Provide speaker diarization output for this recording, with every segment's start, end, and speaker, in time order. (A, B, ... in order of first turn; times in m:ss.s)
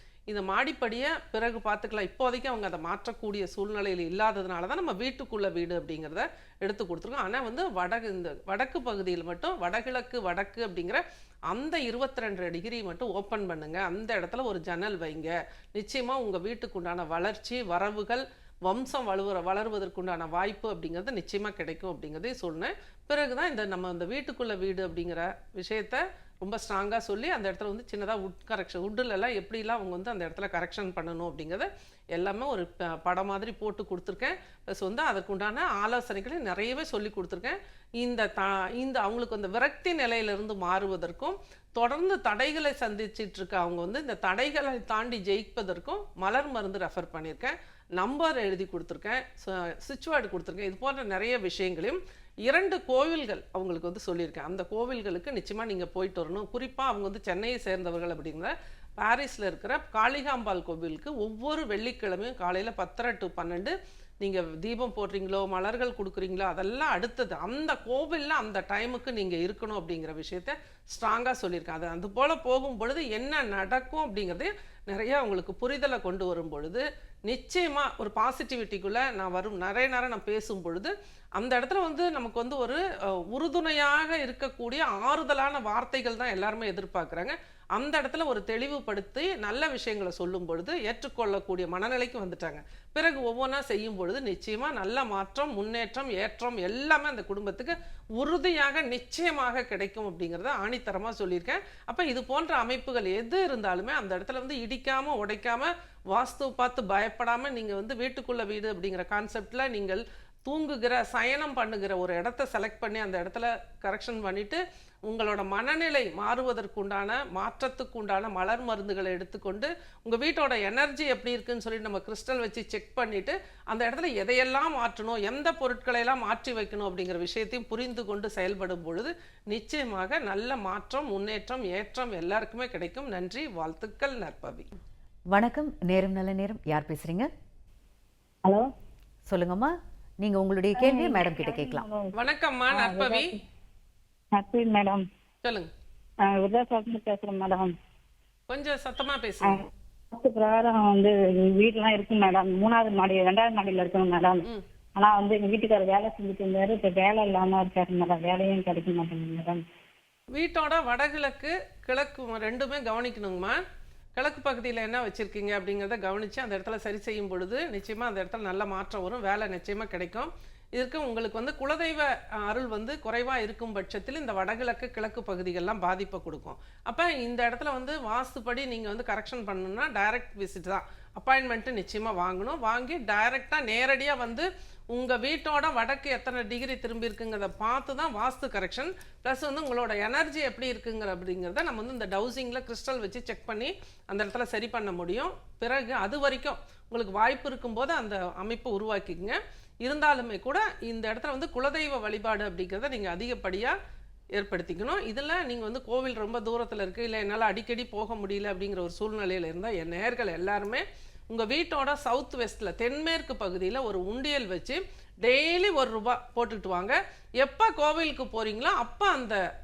0:00.3-2:14.7 A
2:15.3-2:17.3 B
2:19.3-2:21.9 B
2:20.8-2:22.1 C
2:22.2-2:23.3 A
2:22.7-2:23.3 C
2:24.3-2:25.0 C
2:25.4-2:25.7 A
2:26.2-2:27.7 C
2:28.5-2:29.6 A
2:29.4-2:39.6 C
2:40.3-2:43.6 A
2:44.2-3:23.8 A
3:24.3-3:39.4 A